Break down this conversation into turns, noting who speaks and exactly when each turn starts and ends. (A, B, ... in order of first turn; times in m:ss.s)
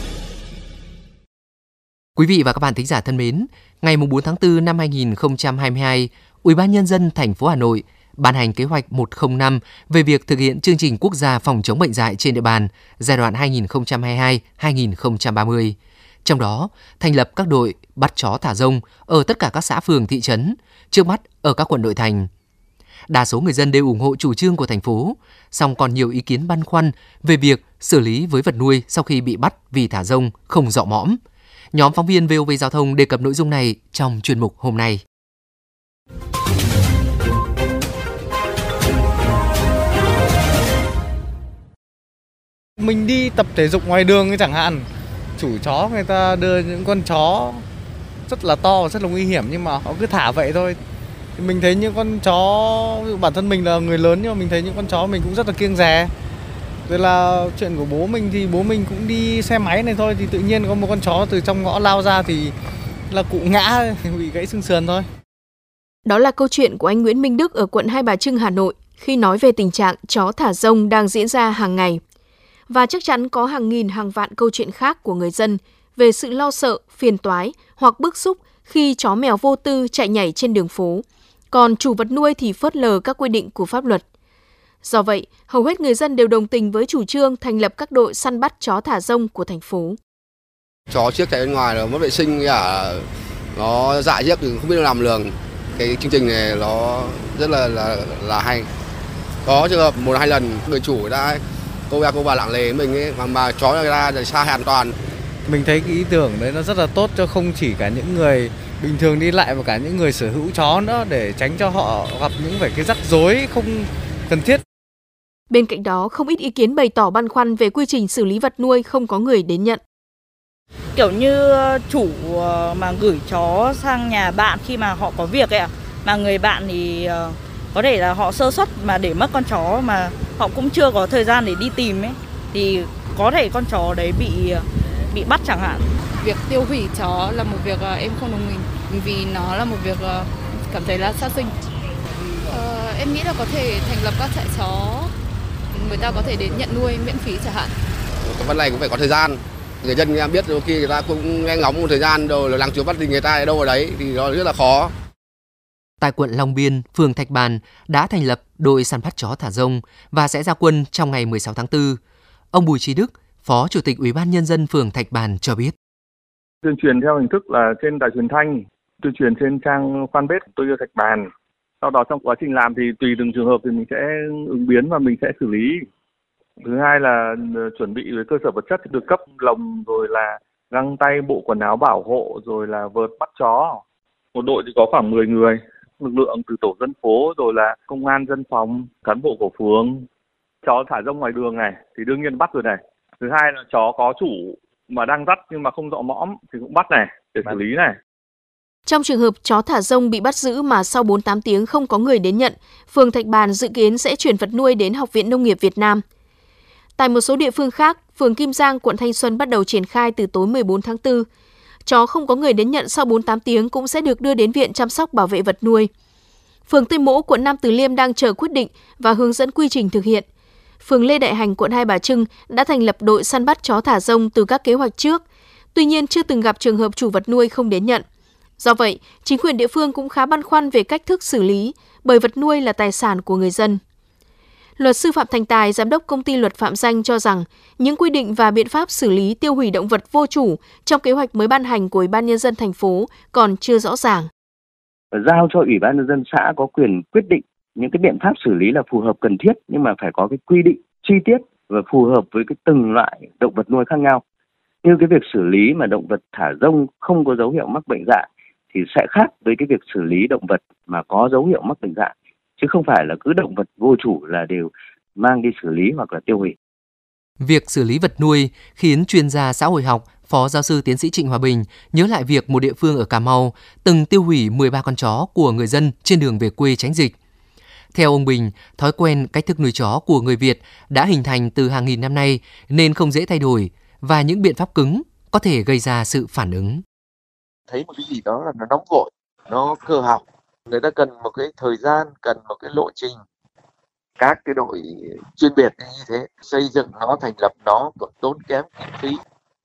0:02.2-0:22.3 A
0:23.1-0:31.2 A
0:31.7-0:35.0 A
0:42.8-0:44.9 B
0:45.4-0:47.6 B
0:48.3-0:50.8 B
0:51.4-0:56.1 B
0:56.9-1:02.5 B
1:03.1-1:05.1 B
1:06.0-1:12.0 C
1:12.7-1:24.0 C
1:24.8-1:30.0 C
1:30.9-1:38.7 D
1:39.4-1:45.0 D
1:45.4-1:54.6 B
1:55.5-1:59.8 C
2:01.0-2:15.8 E
2:16.2-2:21.5 F
2:22.5-2:25.1 F
2:25.7-2:27.7 F
2:28.2-2:34.9 D
2:36.0-2:42.0 A
2:42.5-2:45.7 A
2:46.6-2:51.3 G
2:51.8-2:55.8 G
2:56.6-3:03.8 G
3:04.3-3:10.0 G
3:10.6-3:17.9 G
3:18.8-3:26.0 C
3:27.0-3:31.3 C
3:31.8-3:35.9 C
3:36.7-3:40.2 C
3:40.8-3:45.2 C
3:45.7-3:48.0 C
3:48.6-3:53.8 C
3:54.8-4:04.3 C
4:05.1-4:14.2 H
4:14.8-4:26.6 H
4:27.4-4:37.1 A
4:37.9-4:46.8 A
4:47.7-4:53.2 I
4:54.2-4:59.2 I